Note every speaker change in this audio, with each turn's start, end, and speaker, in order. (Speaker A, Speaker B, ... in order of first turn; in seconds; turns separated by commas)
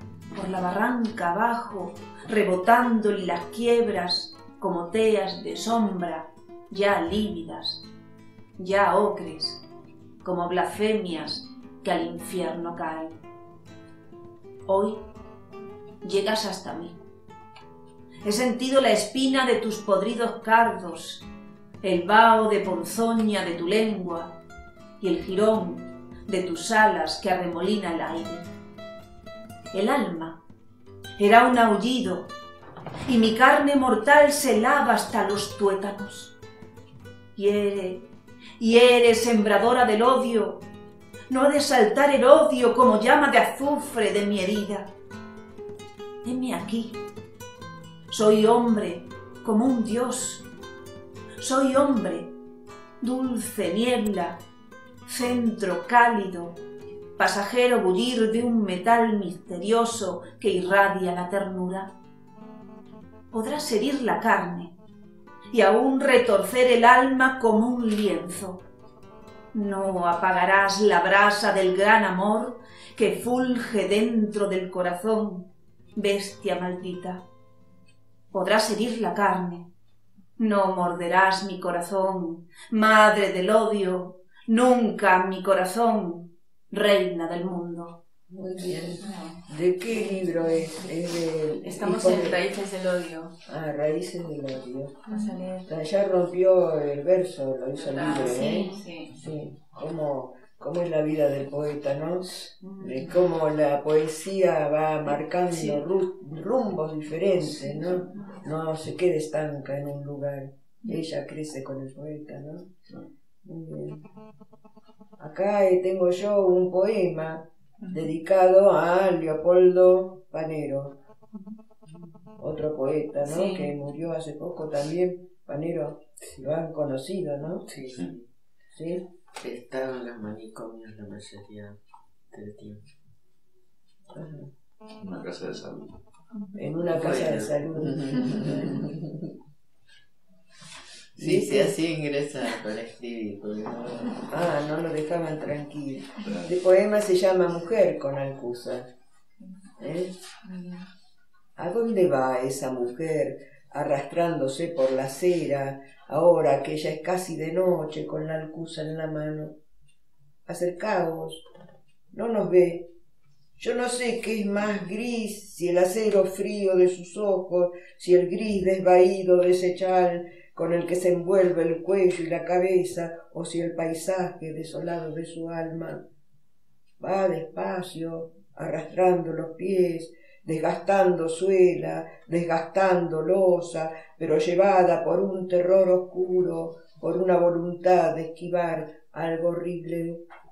Speaker A: 0.3-7.8, Speaker A: 8.6-9.6, Speaker A: 10.2-13.2, Speaker A: 14.7-15.0, Speaker A: 16.0-17.0, Speaker A: 18.2-21.2, Speaker A: 21.8-24.3, Speaker A: 25.0-28.5, Speaker A: 29.7-30.4, Speaker A: 31.2-32.3, Speaker A: 33.0-36.4, Speaker A: 37.4-38.0, Speaker A: 38.6-40.6, Speaker A: 41.3-44.9, Speaker A: 46.2-47.0, Speaker A: 48.1-50.4, Speaker A: 51.4-52.3, Speaker A: 53.0-54.4, Speaker A: 55.0-56.6, Speaker A: 57.2-61.9, Speaker A: 63.3-64.7, Speaker A: 65.5-68.6, Speaker A: 69.5-77.2, Speaker A: 78.3-79.7, Speaker A: 80.4-88.0, Speaker B: 88.3-92.4, Speaker C: 89.0-89.4, Speaker C: 91.6-93.3, Speaker B: 93.5-95.0, Speaker C: 95.1-95.6, Speaker A: 95.1-95.3, Speaker B: 95.7-112.7, Speaker C: 97.8-99.1, Speaker A: 98.0-98.3, Speaker A: 102.6-103.0, Speaker A: 107.4-108.0, Speaker B: 113.4-114.0, Speaker B: 115.2-120.9, Speaker B: 122.4-127.7, Speaker C: 123.3-123.7, Speaker D: 127.7-128.3, Speaker B: 128.7-129.0, Speaker D: 129.4-131.8, Speaker D: 132.3-132.9, Speaker B: 134.1-134.5, Speaker E: 135.0-136.0, Speaker B: 136.6-139.0, Speaker D: 136.9-138.9, Speaker E: 137.0-137.5, Speaker D: 141.2-144.3, Speaker B: 141.2-141.7, Speaker B: 144.3-148.9, Speaker E: 146.2-146.6, Speaker B: 149.8-150.1, Speaker B: 151.6-159.6, Speaker B: 160.5-161.4, Speaker B: 162.1-162.9, Speaker B: 163.6-176.0, Speaker B: 177.0-190.2